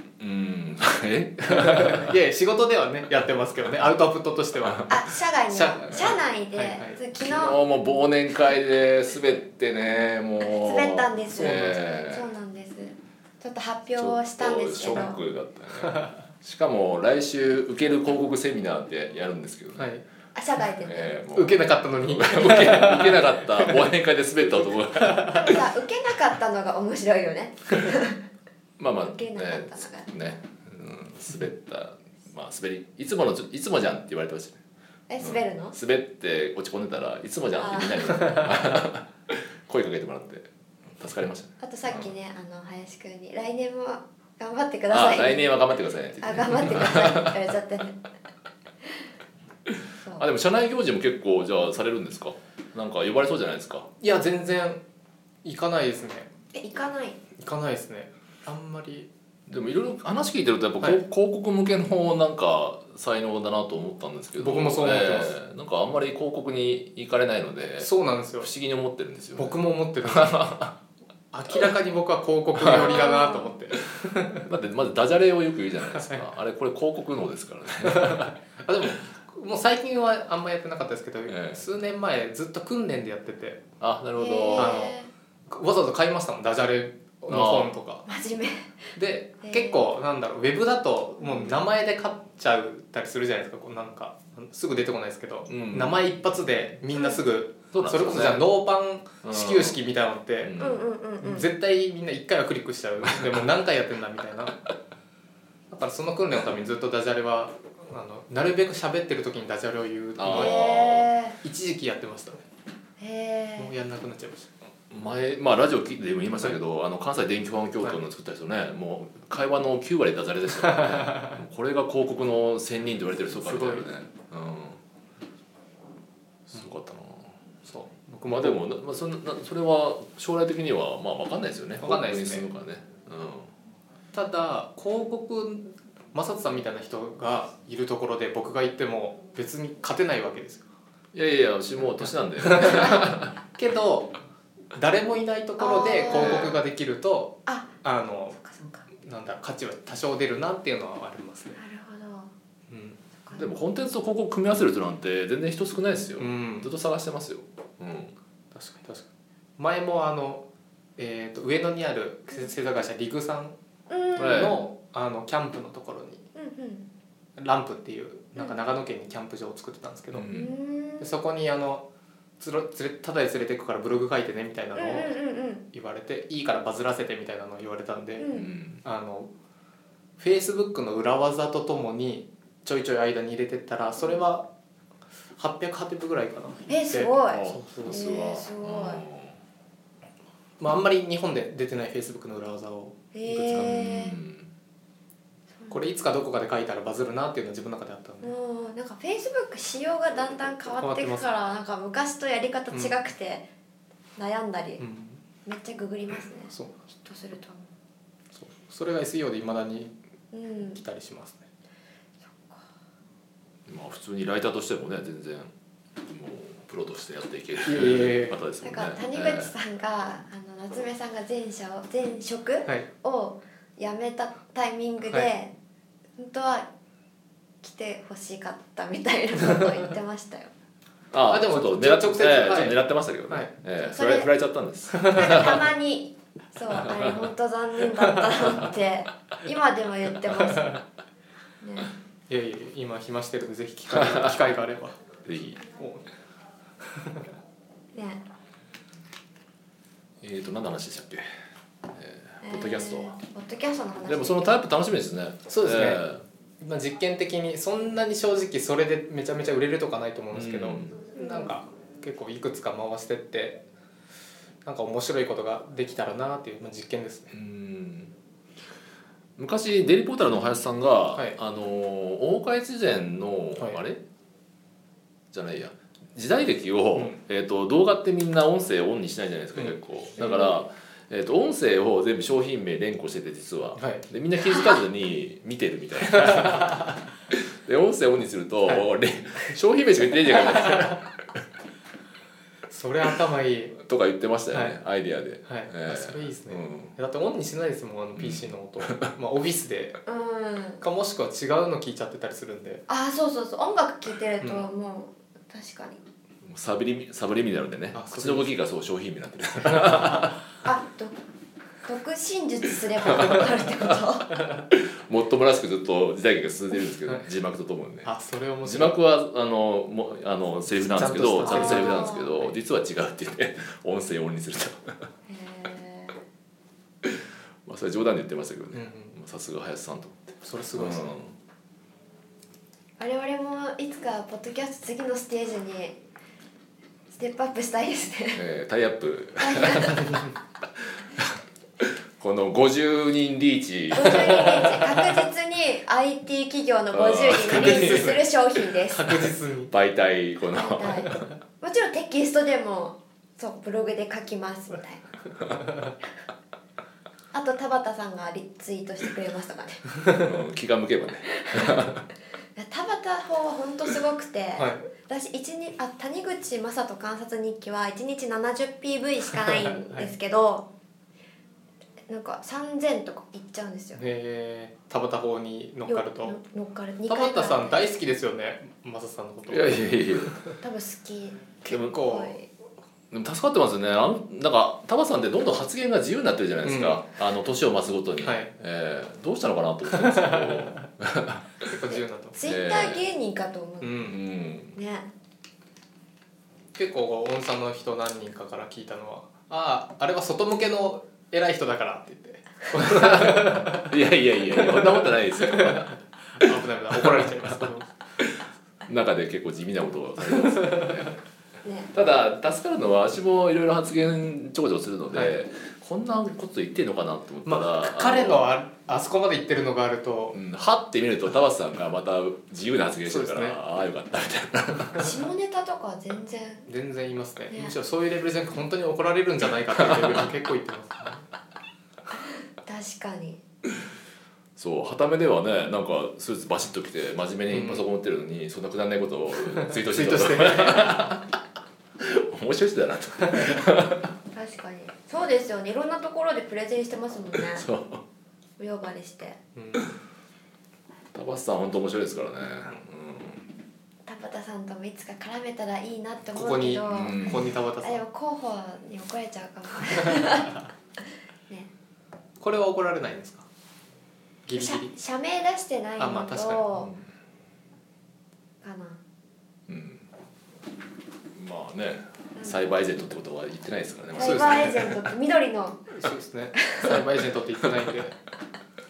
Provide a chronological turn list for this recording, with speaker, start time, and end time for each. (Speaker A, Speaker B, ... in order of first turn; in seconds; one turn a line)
Speaker A: 0.2-2.0
Speaker B: 1.5-7.0
Speaker C: 4.9-7.6
Speaker A: 7.2-12.2
Speaker C: 10.4-15.2
Speaker B: 11.3-11.8
Speaker A: 14.0-19.9
Speaker B: 19.8-20.0
Speaker C: 20.3-21.1
Speaker A: 20.8-25.6
Speaker B: 21.3-23.3
Speaker B: 24.9-25.5
Speaker C: 25.2-28.2
Speaker A: 28.8-34.6
Speaker C: 29.0-30.1
Speaker C: 35.1-35.8
Speaker A: 35.2-40.5
Speaker C: 37.5-38.3
Speaker A: 41.0-41.5
Speaker C: 41.6-45.5
Speaker A: 44.9-47.4
Speaker C: 46.2-48.0
Speaker C: 50.0-50.2
Speaker A: 50.2-53.9
Speaker B: 54.0-54.8
Speaker B: 55.4-56.3
Speaker C: 56.5-57.2
Speaker B: 57.4-59.1
Speaker A: 59.5-70.7
Speaker B: 64.4-65.3
Speaker B: 67.8-68.5
Speaker B: 69.3-70.7
Speaker B: 71.3-74.5
Speaker A: 72.6-72.8
Speaker C: 72.7-73.5
Speaker A: 74.3-78.3
Speaker B: 75.9-76.3
Speaker B: 77.8-83.6
Speaker A: 81.3-81.6
Speaker A: 83.8-84.9
Speaker C: 84.2-85.1
Speaker B: 84.5-85.0
Speaker B: 85.5-88.1
Speaker A: 87.3-87.7
Speaker C: 88.1-88.8
Speaker B: 89.0-100.5
Speaker C: 89.4-89.9
Speaker A: 95.5-96.0
Speaker A: 97.7-98.5
Speaker A: 99.2-99.8
Speaker A: 100.4-100.8
Speaker C: 100.6-101.5
Speaker B: 101.2-104.6
Speaker B: 105.7-110.7
Speaker A: 110.2-111.1
Speaker C: 110.3-111.4
Speaker B: 111.4-112.4
Speaker C: 113.0-113.7
Speaker B: 113.6-114.7
Speaker A: 114.9-124.8
Speaker B: 120.7-121.3
Speaker B: 123.3-123.9
Speaker A: 126.5-127.4
Speaker B: 127.7-128.6
Speaker A: 128.2-133.5
Speaker B: 131.8-132.5
Speaker B: 134.1-140.7
Speaker A: 141.1-143.3
Speaker B: 142.5-144.1
Speaker B: 144.7-148.4
Speaker C: 145.6-146.5
Speaker A: 146.1-146.6
Speaker C: 147.4-147.8
Speaker C: 148.3-148.8
Speaker B: 149.0-151.6
Speaker C: 151.5-152.3
Speaker B: 152.7-153.0
Speaker A: 153.3-158.1
Speaker B: 156.2-156.7
Speaker B: 158.5-159.1
Speaker B: 159.6-160.4
Speaker B: 161.0-163.6
Speaker C: 163.9-164.5
Speaker B: 164.1-166.2
Speaker A: 164.2-164.6
Speaker C: 166.3-166.9
Speaker B: 167.4-170.3
Speaker A: 170.1-170.5
Speaker C: 170.3-171.1
Speaker B: 171.0-171.8
Speaker B: 172.4-175.2
Speaker C: 174.8-175.6
Speaker B: 175.7-178.3
Speaker C: 178.2-178.5
Speaker A: 178.3-178.8
Speaker B: 178.8-179.3
Speaker B: 180.2-184.5
Speaker B: 185.4-188.1
Speaker C: 186.7-189.0
Speaker A: 187.3-189.4
Speaker B: 190.6-192.9
Speaker C: 193.1-194.2
Speaker A: 193.3-194.5
Speaker C: 195.5-195.8
Speaker B: 195.7-198.3
Speaker C: 198.2-203.5
Speaker B: 200.7-201.3
Speaker B: 202.7-203.0
Speaker C: 204.2-204.8
Speaker B: 204.8-205.2
Speaker C: 205.4-207.7
Speaker B: 206.5-206.8
Speaker B: 208.3-209.9
Speaker C: 210.3-210.8
Speaker B: 210.6-211.4
Speaker C: 212.3-212.6
Speaker A: 213.7-215.5
Speaker A: 216.1-219.5
Speaker B: 217.6-218.4
Speaker C: 218.6-225.5
Speaker C: 226.2-226.7
Speaker C: 227.6-230.5
Speaker A: 231.1-235.6
Speaker B: 231.3-233.5
Speaker C: 233.8-234.3
Speaker B: 234.9-235.2
Speaker C: 235.1-240.8
Speaker A: 236.8-237.1
Speaker C: 241.6-241.9
Speaker B: 242.3-245.0
Speaker A: 243.9-244.3
Speaker A: 245.2-245.6
Speaker B: 245.8-246.1
Speaker B: 246.9-247.2
Speaker C: 247.9-248.2
Speaker A: 250.2-251.2
Speaker A: 251.9-253.1
Speaker C: 252.4-254.6
Speaker A: 254.1-256.2
Speaker B: 255.5-256.1
Speaker B: 256.6-263.6
Speaker A: 260.3-261.1
Speaker C: 261.2-261.5
Speaker B: 264.6-267.3
Speaker A: 267.3-268.1
Speaker A: 269.4-274.0
Speaker A: 275.3-291.1
Speaker B: 279.6-280.5
Speaker B: 283.8-284.1
Speaker B: 286.1-286.8
Speaker B: 290.6-290.9
Speaker B: 292.7-293.8
Speaker A: 293.8-296.9
Speaker B: 294.5-294.8
Speaker B: 295.4-300.0
Speaker A: 298.2-298.4
Speaker C: 300.1-300.8
Speaker B: 300.8-302.8
Speaker C: 302.9-306.0
Speaker B: 304.4-304.7
Speaker A: 306.4-310.4
Speaker B: 307.9-308.5
Speaker B: 309.7-310.1
Speaker C: 310.6-311.1
Speaker C: 311.8-314.3
Speaker A: 314.7-318.1
Speaker B: 318.0-319.0
Speaker A: 318.6-324.9
Speaker B: 320.8-322.5
Speaker C: 321.4-322.2
Speaker C: 325.3-326.1
Speaker A: 327.0-331.3
Speaker B: 328.7-329.1
Speaker B: 330.4-331.1
Speaker C: 333.0-336.0
Speaker C: 337.1-338.4
Speaker A: 338.3-340.1
Speaker C: 339.4-340.0
Speaker A: 342.2-345.2
Speaker C: 343.9-349.2
Speaker A: 346.9-348.2
Speaker B: 347.3-348.3
Speaker B: 348.9-349.7
Speaker A: 349.7-351.3
Speaker C: 350.5-355.2
Speaker C: 357.3-359.8
Speaker A: 360.2-362.0
Speaker C: 361.3-361.8
Speaker C: 362.6-370.7
Speaker B: 364.6-364.8
Speaker B: 369.8-370.1
Speaker C: 372.1-374.0
Speaker B: 374.0-376.4
Speaker C: 375.9-377.9
Speaker B: 377.1-380.6
Speaker A: 379.5-380.3
Speaker C: 380.6-382.5
Speaker B: 381.6-382.4
Speaker A: 381.7-382.0
Speaker A: 383.1-391.6
Speaker B: 386.6-387.0
Speaker B: 388.2-388.5
Speaker B: 390.0-390.8
Speaker B: 391.6-392.4
Speaker C: 391.9-394.0
Speaker A: 392.4-393.0
Speaker B: 393.8-394.2
Speaker A: 394.0-394.8
Speaker C: 394.7-395.1
Speaker B: 396.7-404.0
Speaker A: 402.8-407.6
Speaker B: 404.5-408.0
Speaker A: 408.2-411.1
Speaker B: 410.4-410.8
Speaker C: 411.6-411.9
Speaker A: 411.9-418.5
Speaker B: 417.4-420.4
Speaker A: 420.3-425.1
Speaker B: 423.0-423.6
Speaker C: 424.9-426.7
Speaker B: 426.7-431.2
Speaker C: 432.6-433.4
Speaker A: 434.6-441.3
Speaker B: 437.5-437.8
Speaker B: 439.7-441.1
Speaker A: 442.0-444.1
Speaker C: 444.3-447.6
Speaker A: 447.4-448.0
Speaker C: 448.6-449.4
Speaker B: 449.6-449.9
Speaker A: 451.1-453.4
Speaker C: 454.0-457.3
Speaker B: 456.3-458.0
Speaker A: 456.9-457.5
Speaker C: 457.8-460.6
Speaker B: 462.4-463.4
Speaker B: 464.4-464.9
Speaker C: 464.5-466.9
Speaker B: 466.0-466.6
Speaker C: 468.6-469.0
Speaker A: 469.7-470.0
Speaker A: 471.3-474.9
Speaker C: 472.4-472.6
Speaker B: 474.1-474.9
Speaker C: 474.1-475.9
Speaker B: 475.9-478.1
Speaker C: 476.6-476.9